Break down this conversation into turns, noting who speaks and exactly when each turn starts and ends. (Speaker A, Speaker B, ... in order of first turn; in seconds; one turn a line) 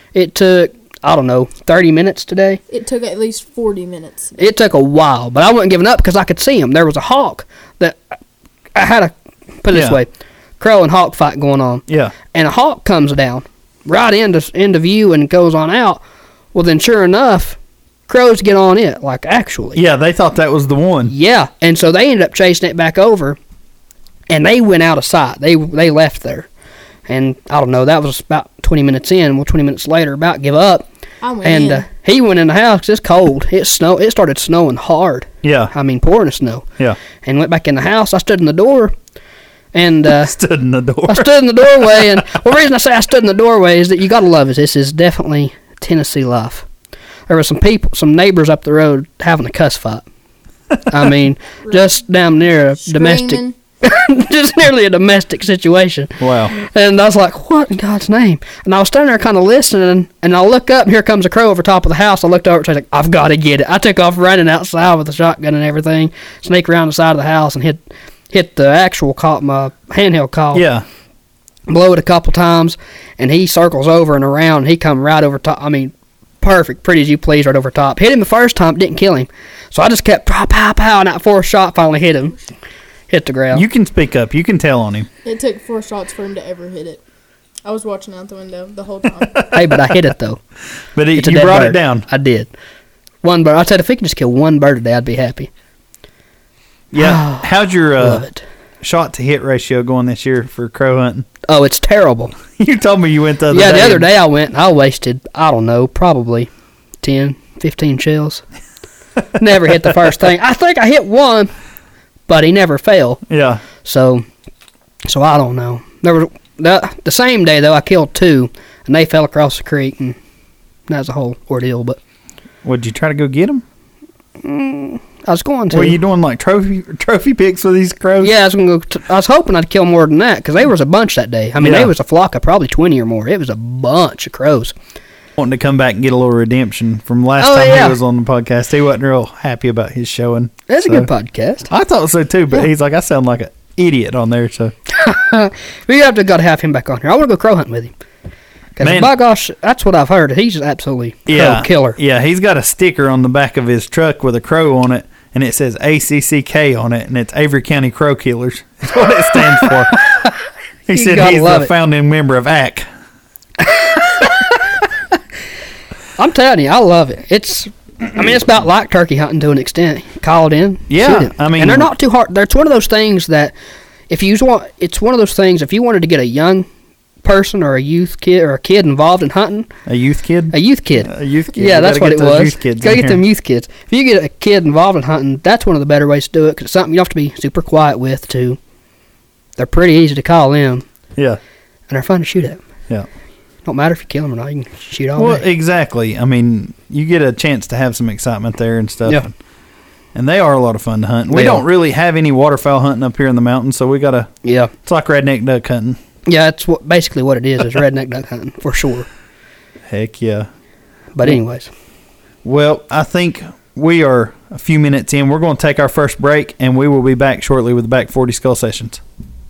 Speaker A: 0.1-2.6
Speaker B: 2.7-4.4
Speaker A: 4.4-8.0
Speaker A: 8.8-16.0
Speaker C: 9.7-10.0
Speaker C: 11.9-12.1
Speaker A: 16.5-19.8
Speaker C: 19.8-21.1
Speaker A: 21.1-23.4
Speaker A: 24.3-26.5
Speaker A: 27.1-30.9
Speaker B: 31.2-31.9
Speaker A: 31.4-36.7
Speaker C: 35.4-35.7
Speaker A: 37.2-39.0
Speaker A: 39.7-40.3
Speaker C: 40.1-42.2
Speaker A: 41.1-46.7
Speaker A: 47.3-50.1
Speaker A: 50.9-70.7
Speaker B: 51.6-51.9
Speaker B: 52.8-53.5
Speaker C: 56.2-56.5
Speaker C: 70.5-70.8
Speaker A: 71.7-82.4
Speaker A: 83.1-83.7
Speaker C: 83.5-85.1
Speaker B: 85.2-87.0
Speaker B: 87.7-89.7
Speaker C: 89.4-89.6
Speaker A: 89.5-90.4
Speaker C: 91.0-92.1
Speaker A: 91.2-92.5
Speaker A: 93.2-95.5
Speaker C: 96.9-98.2
Speaker A: 96.9-98.4
Speaker C: 98.8-101.3
Speaker A: 101.5-102.4
Speaker C: 102.5-104.1
Speaker A: 103.5-106.5
Speaker A: 107.0-108.4
Speaker A: 109.4-111.5
Speaker A: 112.3-113.2
Speaker C: 113.3-113.6
Speaker A: 113.8-114.2
Speaker A: 115.0-120.2
Speaker A: 120.9-122.0
Speaker C: 122.6-123.6
Speaker A: 124.4-126.0
Speaker C: 125.7-128.3
Speaker A: 128.2-134.7
Speaker C: 131.6-131.9
Speaker C: 135.4-141.1
Speaker A: 137.4-138.0
Speaker A: 140.7-141.7
Speaker C: 141.7-144.7
Speaker A: 144.9-147.9
Speaker A: 148.8-152.0
Speaker C: 148.8-149.1
Speaker C: 151.3-160.0
Speaker A: 159.6-160.3
Speaker C: 160.9-162.9
Speaker A: 160.9-161.7
Speaker A: 163.6-164.3
Speaker A: 166.2-173.5
Speaker C: 170.9-171.9
Speaker A: 174.1-176.7
Speaker A: 177.2-179.7
Speaker C: 179.9-183.2
Speaker A: 180.5-188.6
Speaker A: 189.6-190.9
Speaker A: 191.9-192.6
Speaker A: 193.7-195.4
Speaker C: 195.2-199.3
Speaker C: 200.1-204.3
Speaker A: 201.3-201.6
Speaker A: 204.4-204.7
Speaker C: 204.8-206.0
Speaker A: 206.3-209.1
Speaker C: 209.9-210.5
Speaker A: 211.2-211.7
Speaker C: 212.4-219.0